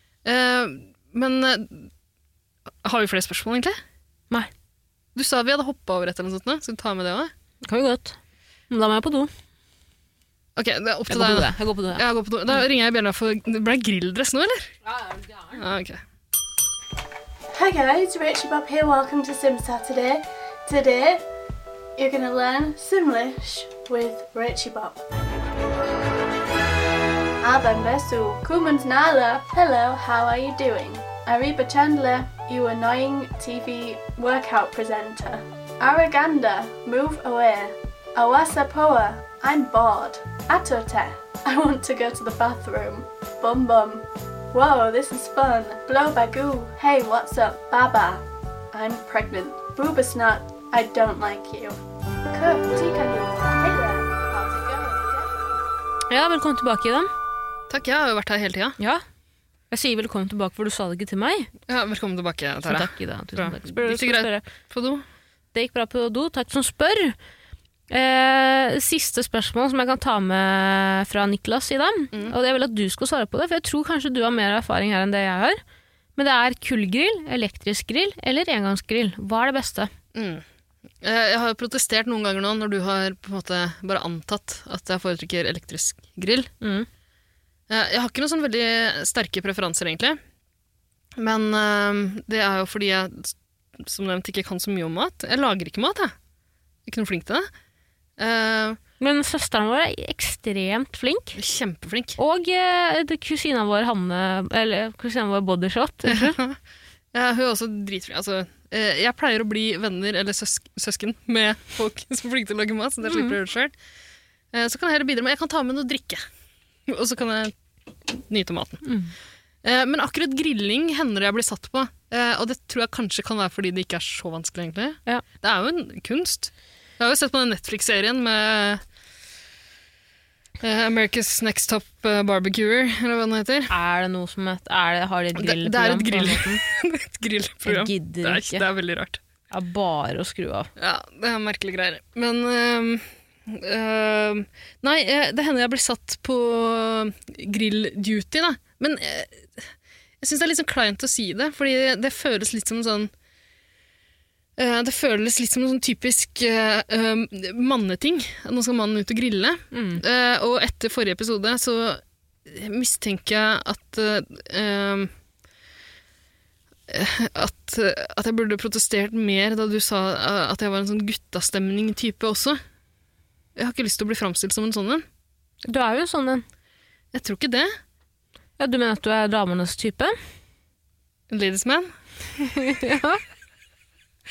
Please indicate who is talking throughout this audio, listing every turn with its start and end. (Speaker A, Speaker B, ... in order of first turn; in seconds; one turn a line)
Speaker A: 0.2-1.9
Speaker A: 2.8-3.8
Speaker A: 5.1-7.3
Speaker B: 7.6-8.2
Speaker B: 8.7-9.3
Speaker A: 10.6-14.7
Speaker B: 11.1-12.1
Speaker B: 14.9-15.6
Speaker A: 15.6-16.0
Speaker C: 17.5-21.3
Speaker C: 21.9-25.0
Speaker C: 27.4-55.3
Speaker B: 56.1-57.1
Speaker A: 57.7-58.8
Speaker B: 59.7-61.5
Speaker A: 61.7-65.0
Speaker B: 62.6-64.5
Speaker B: 65.5-67.2
Speaker B: 67.9-75.6
Speaker B: 76.2-79.9
Speaker A: 80.1-80.5
Speaker A: 81.0-86.5
Speaker B: 86.6-86.9
Speaker A: 87.7-90.2
Speaker A: 91.2-96.1
Speaker A: 96.9-97.5
Speaker A: 98.2-98.8
Speaker B: 99.0-101.4
Speaker A: 101.3-102.2
Speaker B: 102.2-106.4
Speaker A: 106.0-106.6
Speaker A: 107.1-113.7
Speaker B: 113.0-113.3
Speaker A: 114.5-116.2
Speaker A: 116.9-117.5
Speaker A: 118.0-118.9
Speaker B: 118.8-119.1
Speaker A: 119.6-128.8
Speaker A: 130.6-133.7
Speaker B: 133.7-136.6
Speaker A: 135.4-139.2
Speaker B: 137.7-138.7
Speaker B: 139.5-140.7
Speaker A: 140.8-153.1
Speaker A: 154.6-165.1
Speaker B: 159.7-160.0
Speaker A: 166.9-172.6
Speaker A: 173.6-175.1
Speaker B: 175.6-176.4
Speaker A: 177.1-177.7
Speaker B: 178.6-180.1
Speaker A: 181.3-181.9
Speaker B: 182.4-183.2